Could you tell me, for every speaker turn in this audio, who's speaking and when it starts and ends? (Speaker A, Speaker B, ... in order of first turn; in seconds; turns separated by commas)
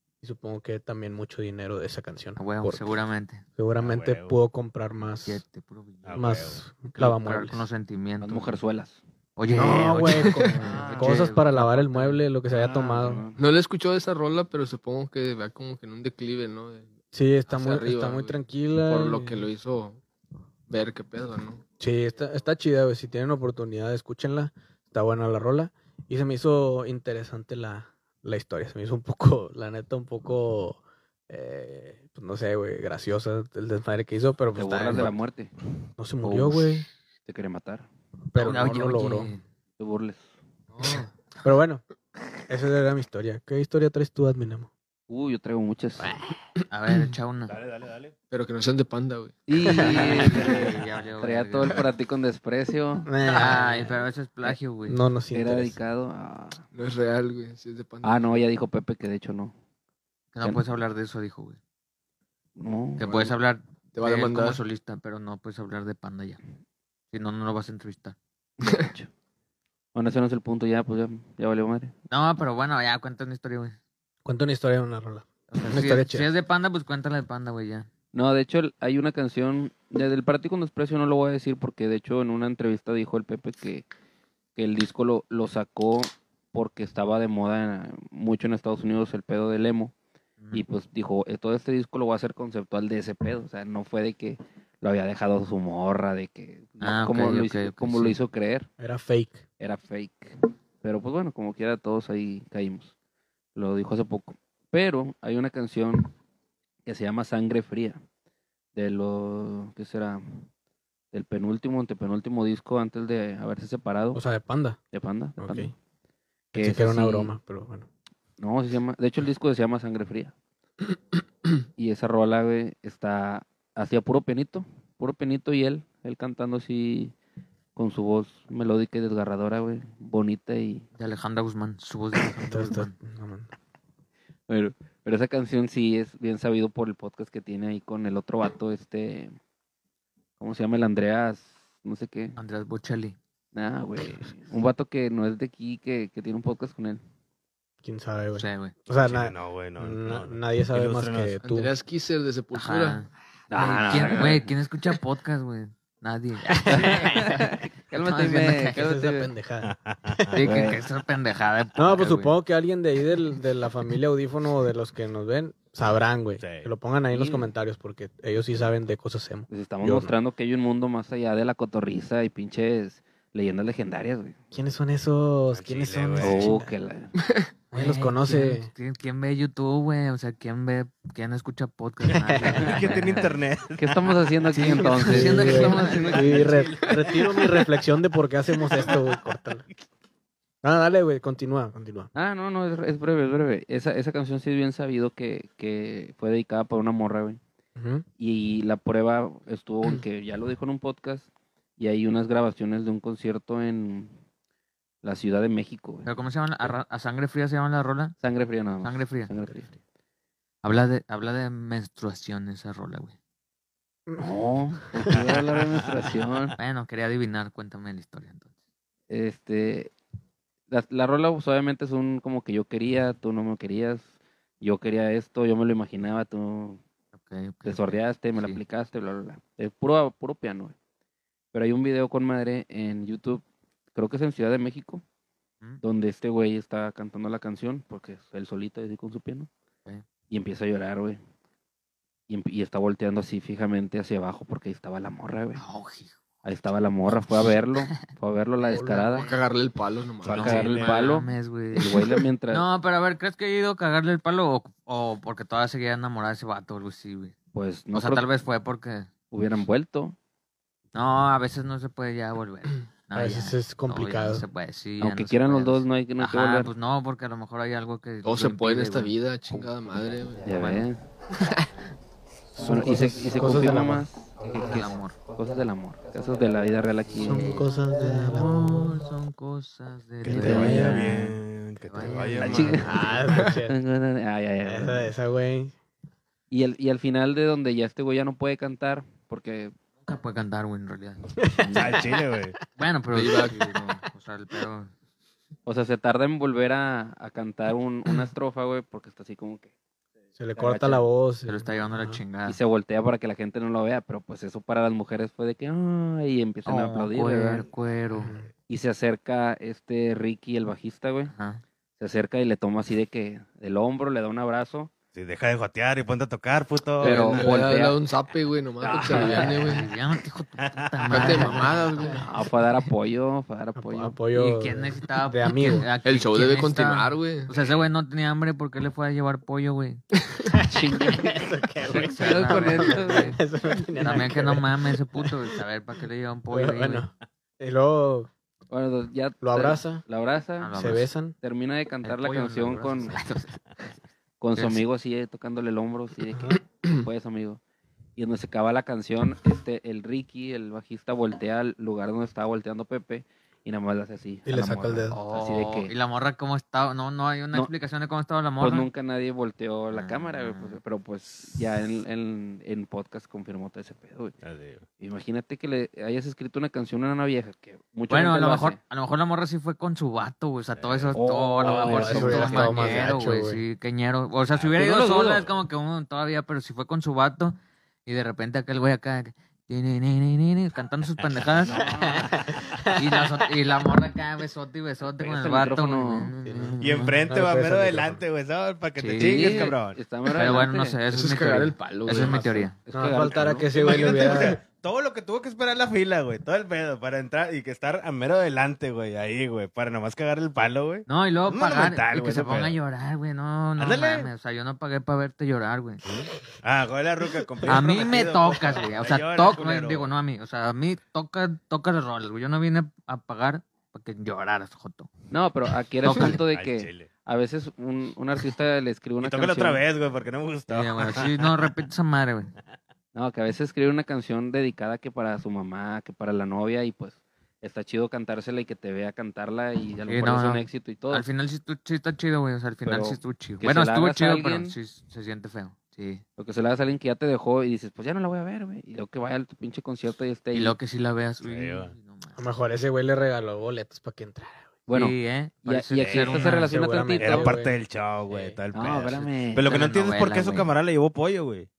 Speaker A: 0.2-2.9, Speaker B: 2.4-3.5, Speaker A: 3.6-5.4, Speaker C: 3.8-4.4, Speaker B: 5.3-8.6, Speaker C: 6.0-6.6, Speaker A: 6.2-7.6, Speaker D: 8.2-9.0, Speaker B: 9.4-12.2, Speaker A: 9.5-13.2, Speaker E: 10.3-10.5, Speaker D: 10.6-11.3, Speaker D: 12.5-13.4, Speaker E: 13.4-16.9, Speaker A: 17.1-19.5, Speaker E: 17.5-20.0, Speaker E: 20.7-21.6, Speaker A: 21.8-35.1, Speaker D: 34.5-35.5, Speaker A: 36.0-36.9, Speaker D: 36.2-37.9, Speaker A: 38.3-39.3, Speaker B: 38.4-39.4, Speaker D: 39.8-40.3, Speaker B: 40.7-41.1, Speaker A: 41.4-41.8, Speaker A: 42.5-44.7, Speaker D: 45.1-46.1, Speaker A: 46.0-46.2, Speaker B: 46.7-47.5, Speaker C: 47.5-48.1, Speaker E: 48.3-50.6, Speaker D: 49.5-53.6, Speaker B: 49.8-51.8, Speaker A: 49.8-50.1, Speaker A: 53.1-53.9, Speaker B: 53.3-55.0, Speaker A: 54.9-55.8, Speaker D: 55.3-56.6, Speaker E: 56.7-58.4, Speaker D: 58.0-59.5, Speaker B: 60.3-61.6, Speaker D: 62.6-63.3, Speaker B: 63.0-66.4, Speaker E: 63.1-63.3, Speaker E: 64.0-64.6, Speaker B: 67.1-68.2, Speaker D: 68.6-69.1, Speaker D: 69.9-71.9, Speaker B: 72.1-73.8, Speaker A: 74.2-76.3, Speaker B: 75.5-77.9, Speaker D: 78.1-83.9, Speaker D: 84.6-89.9, Speaker D: 90.5-98.7, Speaker B: 96.8-98.2, Speaker A: 98.8-99.4, Speaker D: 99.6-102.9, Speaker D: 103.5-106.1, Speaker D: 106.8-108.0, Speaker D: 108.7-110.5, Speaker D: 111.1-114.2, Speaker A: 114.1-114.8, Speaker D: 114.9-115.7, Speaker A: 115.4-115.7, Speaker D: 116.5-117.3, Speaker A: 116.5-117.9, Speaker D: 118.4-120.3, Speaker D: 121.8-127.1, Speaker D: 127.8-130.9, Speaker B: 131.0-132.9, Speaker A: 132.4-133.5, Speaker D: 134.5-139.4, Speaker D: 140.4-142.4, Speaker B: 142.4-143.2, Speaker D: 143.5-147.0, Speaker A: 147.8-151.7, Speaker B: 148.4-148.8, Speaker C: 149.0-151.4, Speaker E: 151.4-153.0, Speaker B: 152.5-158.8, Speaker D: 153.5-154.5, Speaker E: 153.7-154.3, Speaker D: 156.7-159.3, Speaker A: 156.7-157.1, Speaker A: 158.8-160.4, Speaker C: 159.6-160.4, Speaker B: 160.3-162.3, Speaker D: 160.4-160.8, Speaker A: 161.8-170.1, Speaker C: 166.4-166.7, Speaker D: 167.1-167.5, Speaker D: 169.5-174.4, Speaker A: 174.5-176.7, Speaker C: 175.5-176.6, Speaker D: 176.2-177.1, Speaker A: 177.7-178.7, Speaker B: 177.7-183.4, Speaker A: 182.1-182.8, Speaker C: 182.5-184.1, Speaker D: 183.8-187.1, Speaker B: 184.5-186.7, Speaker A: 185.0-189.7, Speaker A: 190.6-192.1, Speaker D: 192.2-197.4, Speaker A: 197.8-198.1, Speaker D: 198.2-204.2, Speaker D: 205.0-206.1, Speaker B: 206.1-208.2, Speaker D: 208.2-209.7, Speaker B: 208.8-209.3, Speaker B: 210.6-213.2, Speaker D: 214.2-216.6, Speaker B: 216.6-218.5, Speaker D: 219.1-219.9, Speaker D: 220.7-224.1, Speaker D: 224.6-226.8, Speaker B: 227.2-228.6, Speaker D: 227.7-230.8, Speaker D: 231.5-233.4, Speaker D: 233.9-235.0, Speaker D: 235.8-239.5, Speaker D: 240.3-241.2, Speaker D: 242.3-245.6, Speaker B: 245.6-246.2, Speaker D: 246.4-249.3, Speaker A: 248.7-249.1, Speaker E: 249.1-250.7, Speaker D: 250.2-252.7, Speaker B: 250.3-257.4, Speaker C: 250.3-250.8, Speaker D: 257.5-258.2, Speaker B: 257.9-259.1, Speaker D: 259.3-260.2, Speaker B: 260.9-269.7, Speaker A: 263.1-264.5, Speaker D: 265.0-266.7, Speaker E: 268.2-270.8, Speaker B: 270.4-270.9, Speaker D: 270.4-271.0, Speaker E: 271.3-271.7, Speaker A: 272.6-274.1, Speaker D: 272.6-277.6, Speaker B: 274.6-275.2, Speaker A: 277.2-278.9, Speaker B: 277.2-283.3, Speaker A: 280.2-281.1, Speaker C: 280.2-283.1, Speaker D: 280.4-281.0, Speaker D: 282.4-285.1, Speaker A: 282.5-283.8, Speaker A: 284.6-285.8, Speaker D: 286.5-289.7, Speaker B: 290.1-292.0, Speaker A: 291.4-292.5, Speaker C: 291.7-292.6, Speaker B: 292.8-294.9, Speaker E: 293.1-293.6, Speaker D: 295.7-299.7, Speaker A: 300.4-302.2, Speaker D: 300.6-301.1, Speaker B: 301.5-302.6, Speaker D: 302.5-307.7, Speaker B: 306.7-308.4, Speaker A: 308.1-308.5, Speaker D: 308.7-311.3, Speaker B: 311.3-311.6, Speaker D: 312.0-314.9, Speaker C: 315.1-317.5, Speaker D: 317.0-318.0, Speaker E: 317.0-319.9, Speaker D: 318.8-319.9, Speaker B: 318.9-322.3, Speaker C: 320.6-321.3, Speaker E: 321.1-322.2, Speaker D: 322.1-324.2, Speaker A: 323.8-325.9, Speaker B: 324.3-330.0, Speaker E: 326.0-327.5, Speaker A: 330.5-335.3, Speaker D: 330.6-333.4, Speaker B: 331.9-333.4, Speaker B: 334.0-337.1, Speaker A: 336.5-338.3, Speaker D: 338.7-340.8, Speaker A: 339.4-340.0, Speaker B: 340.6-341.1, Speaker A: 340.7-341.4, Speaker D: 341.4-343.2, Speaker B: 342.0-343.6, Speaker D: 344.4-347.6, Speaker B: 344.6-344.8, Speaker D: 348.2-355.9, Speaker A: 354.5-355.2, Speaker B: 355.1-358.9, Speaker D: 358.6-364.4, Speaker B: 359.9-360.8, Speaker C: 364.4-364.8, Speaker D: 365.0-368.8, Speaker B: 368.1-381.9, Speaker C: 370.8-371.2, Speaker D: 371.1-373.1, Speaker A: 371.7-373.6, Speaker D: 374.8-375.5, Speaker C: 381.7-382.2, Speaker A: 381.8-383.2, Speaker B: 382.9-387.2, Speaker D: 385.2-386.3, Speaker A: 386.4-388.2, Speaker C: 386.8-390.0, Speaker B: 389.0-389.7, Speaker D: 389.2-391.0, Speaker B: 390.3-392.8, Speaker E: 391.1-392.7, Speaker D: 392.8-393.7, Speaker A: 392.9-394.6, Speaker C: 393.7-402.8, Speaker B: 401.1-406.0, Speaker C: 403.8-404.3, Speaker C: 406.1-410.1, Speaker B: 407.7-415.1, Speaker D: 415.3-419.8, Speaker B: 416.1-416.4, Speaker C: 416.3-417.1, Speaker C: 419.2-421.7, Speaker B: 420.7-422.5, Speaker D: 423.1-431.3, Speaker B: 430.1-436.2, Speaker D: 432.9-434.8, Speaker D: 436.4-440.8, Speaker B: 440.5-442.4, Speaker C: 441.4-441.9, Speaker A: 442.4-444.8, Speaker D: 444.9-447.6, Speaker B: 444.9-446.7, Speaker C: 446.0-446.5, Speaker A: 446.5-447.8, Speaker C: 447.2-451.7, Speaker A: 448.3-448.6, Speaker D: 448.7-449.7, Speaker B: 449.6-450.7